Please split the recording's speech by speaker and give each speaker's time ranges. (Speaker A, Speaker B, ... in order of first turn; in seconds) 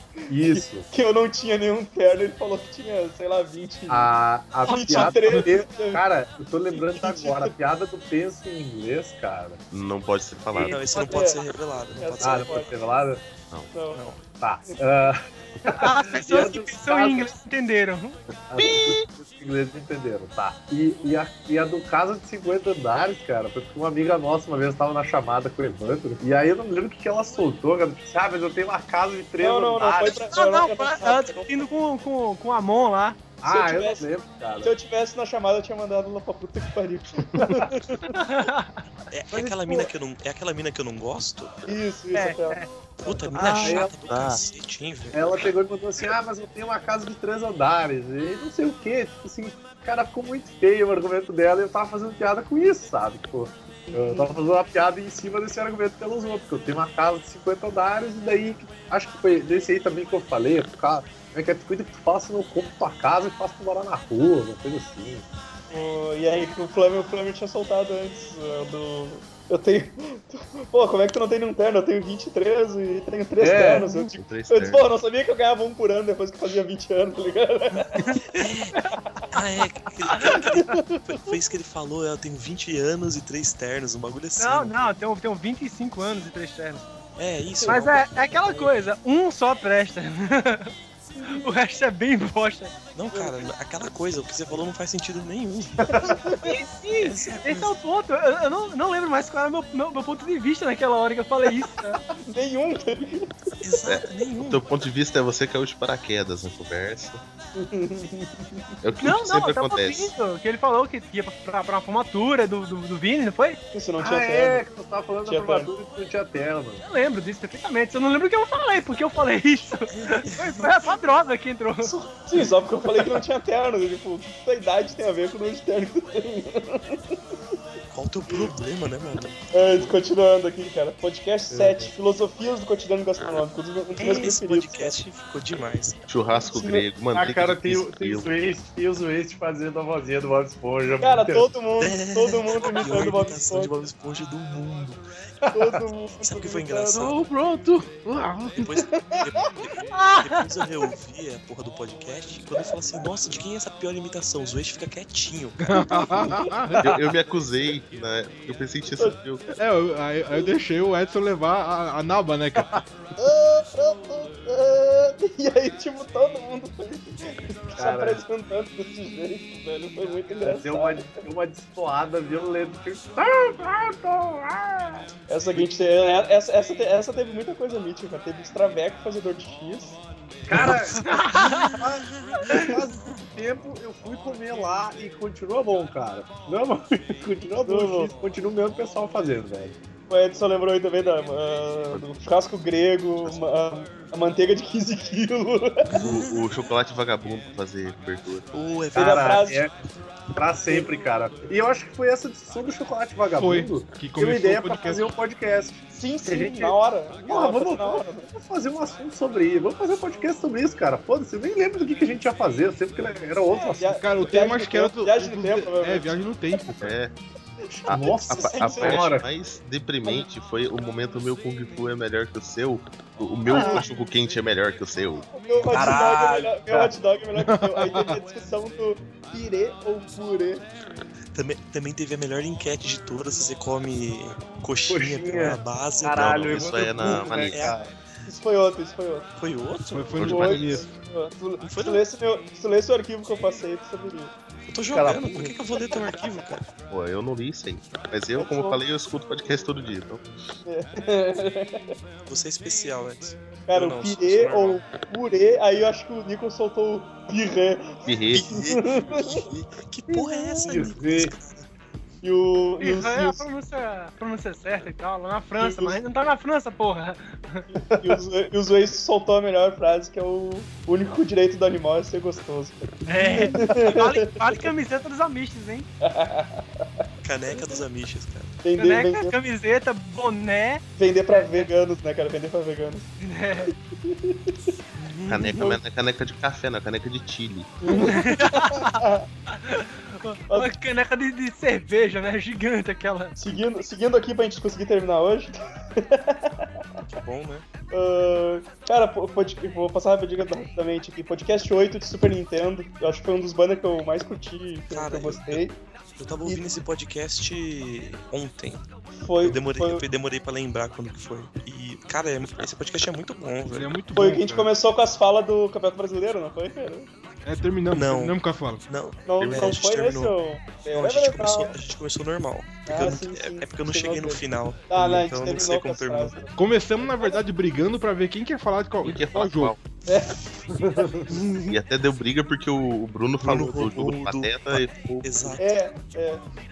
Speaker A: 0.3-0.9, 3.9-9.6, 12.2-13.2, 14.4-17.3, 18.5-30.3, 33.4-34.8, 39.3-39.9, 43.4-43.9, 45.1-65.3, 73.4-74.1, 95.9-96.2, 114.0-116.8, 131.5-131.9, 137.2-141.5, 145.4-145.8, 147.2-148.5, 167.8-168.2, 170.4-175.8, 180.5-189.8, 198.9-199.7, 200.4-214.0, 217.7-219.3, 223.6-223.8, 225.7-226.9, 234.9-237.8, 244.9-245.5, 260.7-261.3, 267.8-268.2, 330.8-331.3
Speaker B: 0.4-4.1, 4.7-6.0, 6.9-7.5, 10.9-11.4, 12.0-12.8, 13.7-14.0, 29.4-31.5, 33.4-34.1, 34.6-38.1, 41.7-43.3, 53.9-54.3, 65.7-78.0, 80.4-81.1, 93.1-93.5, 96.1-96.5, 102.3-103.3, 107.6-108.6, 113.7-114.7, 115.3-115.7, 121.8-127.2, 129.5-135.0, 136.5-136.9, 141.0-143.7, 145.5-147.1, 148.6-149.2, 155.9-156.6, 163.2-171.1, 175.3-180.0, 187.6-188.1, 190.1-195.8, 198.9-199.6, 205.9-208.3, 213.7-216.6, 218.1-219.1, 223.5-223.9, 225.3-230.7, 238.3-239.3, 240.3-244.3, 248.4-248.8, 250.7-251.9, 253.7-259.4, 262.2-263.4, 265.6-265.9, 268.0-274.6, 276.0-277.0, 278.6-279.4, 281.0-283.1, 284.1-284.6, 287.8-289.3, 293.4-296.7, 297.9-305.7, 306.4-306.8, 309.2-310.0, 314.2-317.1, 319.3-321.8, 322.9-327.4, 330.1-330.4, 335.6-336.4
Speaker C: 9.7-10.8, 18.5-19.1, 43.3-44.4, 74.2-74.9, 103.9-107.2, 108.8-110.1, 136.1-138.3, 156.8-159.4, 191.9-192.5, 193.2-193.5, 196.0-198.5, 216.8-217.2, 217.9-225.3, 236.0-237.9, 240.2-240.9, 246.9-250.3, 258.1-258.6, 285.3-288.1, 319.4-319.8, 329.0-329.8, 331.7-335.6
Speaker D: 10.6-12.9, 13.9-14.2, 39.1-41.7, 43.0-45.2, 78.3-78.8, 79.3-84.8, 87.2-88.5, 93.0-95.8, 97.0-97.8, 103.6-104.7, 119.9-120.8, 127.9-129.9, 134.0-136.0, 141.8-145.0, 146.2-147.2, 148.6-155.8, 196.0-196.3, 198.5-199.4, 231.3-237.8, 239.4-240.4, 241.6-242.0, 244.7-246.6, 252.3-254.8, 258.3-261.7, 277.2-278.6, 297.1-297.7, 304.9-308.9, 309.4-313.9, 317.9-318.4, 318.9-320.4, 320.9-326.4, 333.4-335.8
Speaker E: 11.0-11.2, 15.7-18.2, 30.3-33.3, 38.1-38.7, 42.1-42.7, 84.4-86.9, 87.7-90.7, 91.4-92.7, 96.4-102.0, 109.0-113.6, 116.8-121.9, 149.9-150.4, 181.0-181.8, 262.8-267.7, 273.1-275.9, 278.7-281.7, 283.2-283.7, 285.1-285.5, 287.9-289.0, 289.5-293.4
Speaker F: 155.7-157.0, 159.6-162.7, 203.4-205.1, 214.0-216.9, 227.4-228.2, 239.9-240.9, 313.7-314.7, 317.4-318.8, 326.6-329.8